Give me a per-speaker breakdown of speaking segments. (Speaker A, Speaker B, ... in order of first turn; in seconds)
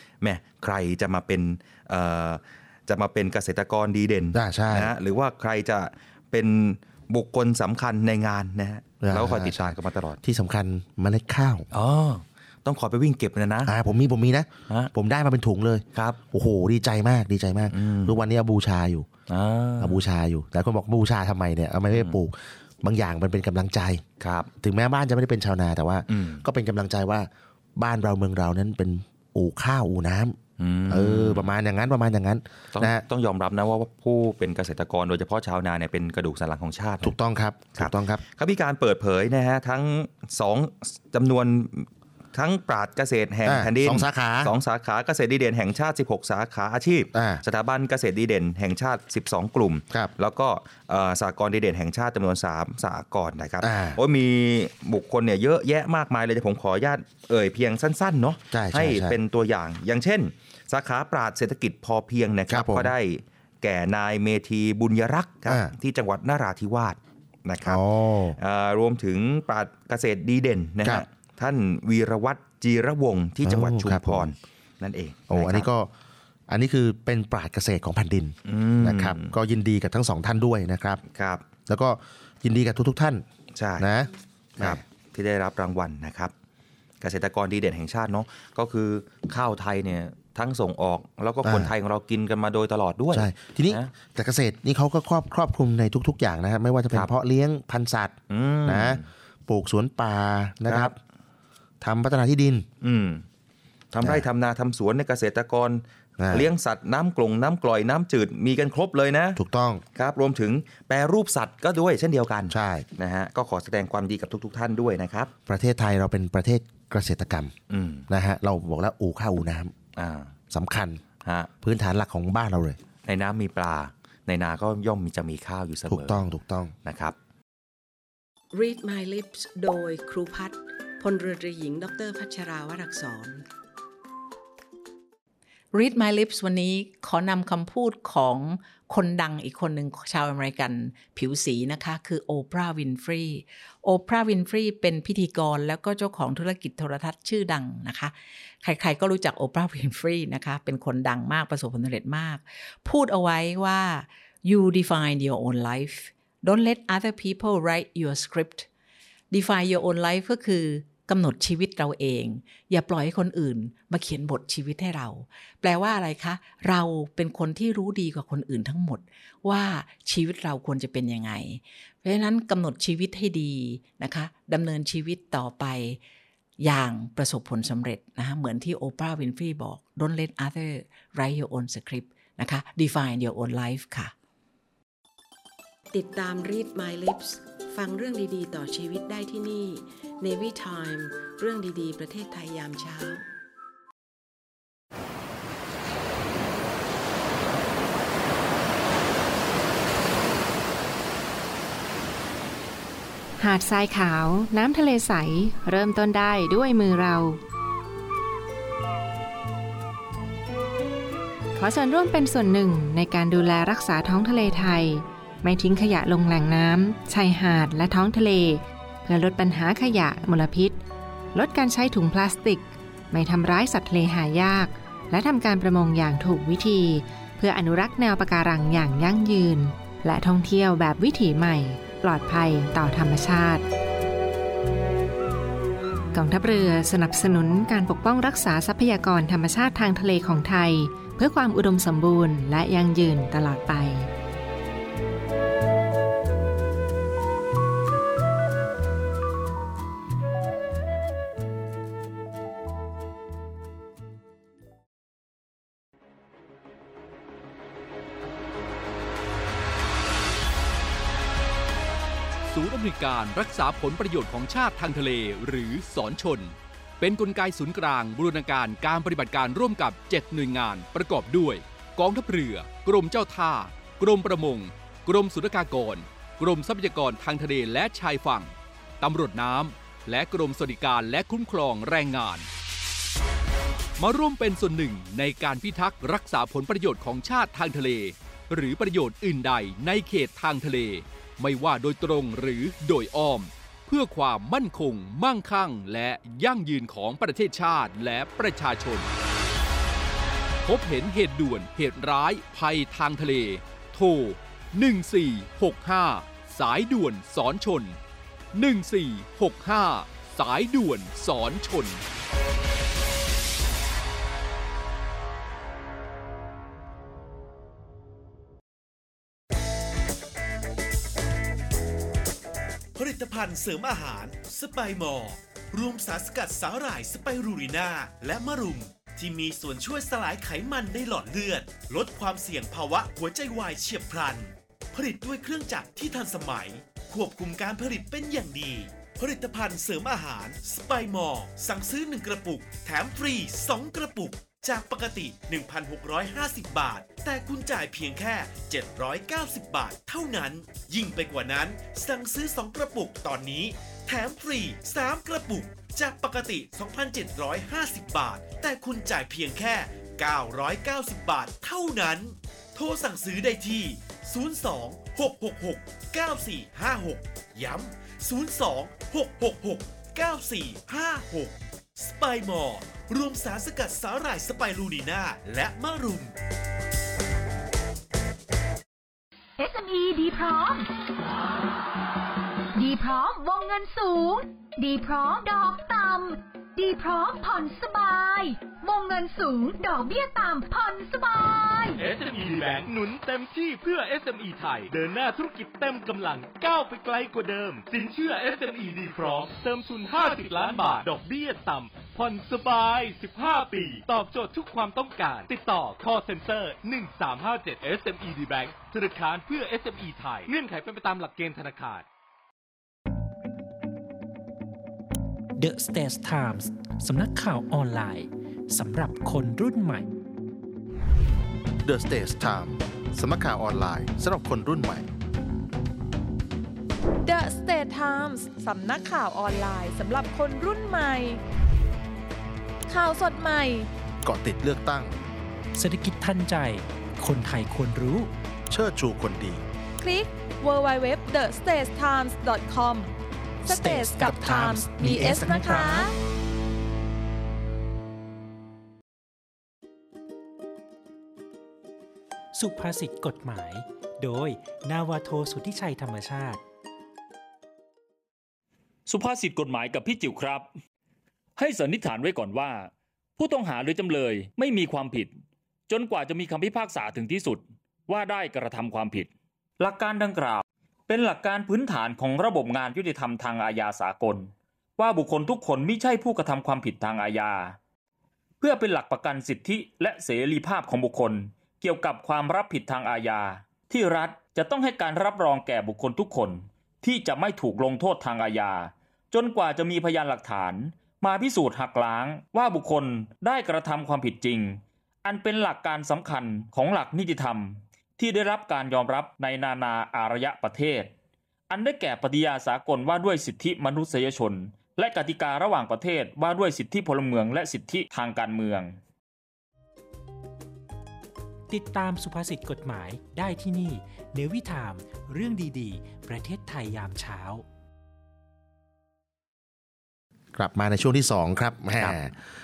Speaker A: 0.2-10.2, 11.7-13.7, 17.7-18.2, 19.3-20.0, 24.2-24.5, 26.1-26.4, 30.6-31.5, 32.7-37.1, 37.8-67.8, 68.4-75.7, 78.5-79.3, 81.1-81.4, 83.5-83.8, 84.6-86.3, 87.0-93.9, 98.3-99.0, 100.7-100.9, 102.8-103.2, 103.9-109.4, 109.9-115.3, 117.7-118.0, 120.0-120.3, 121.2-121.5, 123.0-126.2, 126.8-127.2
Speaker B: 4.3-4.9, 9.0-11.7, 13.6-19.1, 19.8-24.0, 24.6-30.4, 30.9-33.0, 37.0-38.2, 43.4-44.5, 47.1-47.4, 53.6-54.0, 58.5-59.2, 62.5-62.9, 65.5-65.7, 67.6-68.4, 73.4-74.2, 75.3-75.9, 76.5-81.0, 81.7-83.2, 83.8-84.8, 91.4-91.7, 93.1-98.1, 98.7-101.0, 101.8-102.7, 106.2-106.5, 109.3-109.8, 112.5-112.8, 115.5-117.5, 118.1-119.7, 120.5-121.0, 121.6-122.8, 125.9-126.7, 421.8-425.1, 434.2-435.1, 438.7-439.6, 445.1-445.9, 520.5-522.3
Speaker C: 128.5-133.4, 185.9-193.2
Speaker D: 135.7-158.7, 159.3-176.0, 176.6-184.1
Speaker E: 203.4-207.4, 211.5-220.8, 221.3-233.6, 236.1-244.1
Speaker F: 262.5-282.5, 284.0-299.1, 300.6-308.0, 308.5-312.0
Speaker G: 322.9-376.3
Speaker H: 379.6-380.9, 382.7-392.0
Speaker I: 392.0-412.1
Speaker J: 415.6-420.1, 435.7-438.3, 443.7-446.0, 452.5-456.6, 511.7-517.6
Speaker K: 427.2-431.4, 432.9-433.9, 440.0-443.1, 443.6-446.1
Speaker L: 459.1-460.7, 461.6-465.3, 465.9-477.8, 478.6-501.1, 501.7-509.0